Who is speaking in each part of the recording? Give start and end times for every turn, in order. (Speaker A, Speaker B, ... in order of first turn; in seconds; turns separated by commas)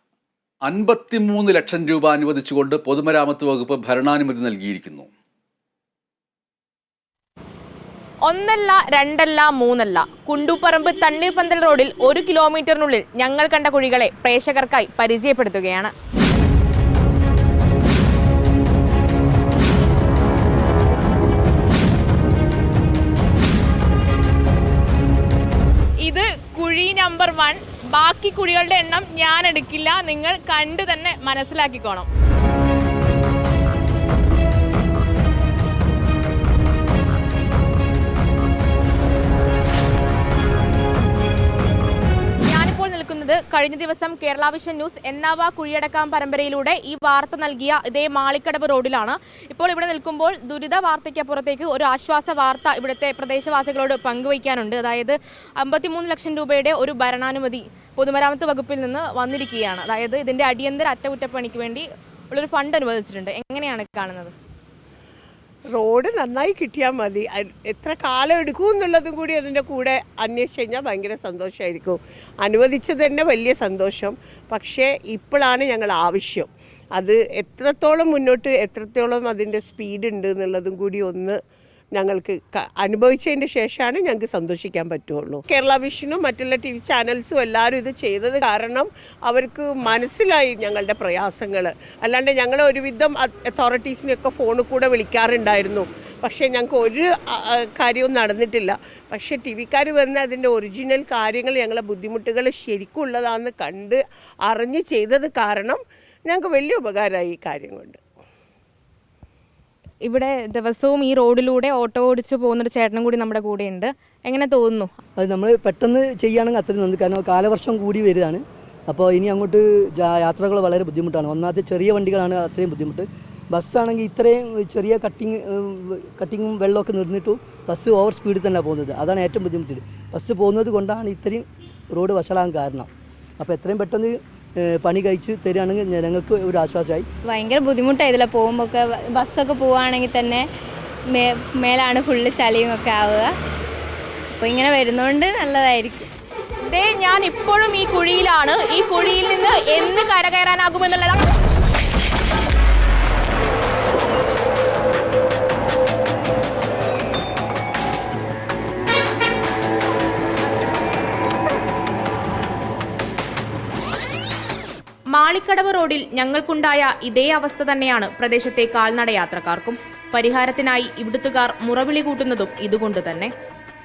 Speaker A: 0.6-5.1, Speaker B: 8.2-15.9, Speaker B: 26.0-32.1, Speaker B: 42.5-64.3, Speaker C: 65.7-81.4, Speaker C: 81.9-108.0, Speaker B: 110.0-114.9, Speaker D: 115.2-132.9, Speaker D: 133.4-137.1, Speaker E: 137.3-140.5, Speaker E: 141.1-143.3, Speaker E: 144.3-146.1, Speaker B: 146.7-151.3, Speaker B: 165.1-173.3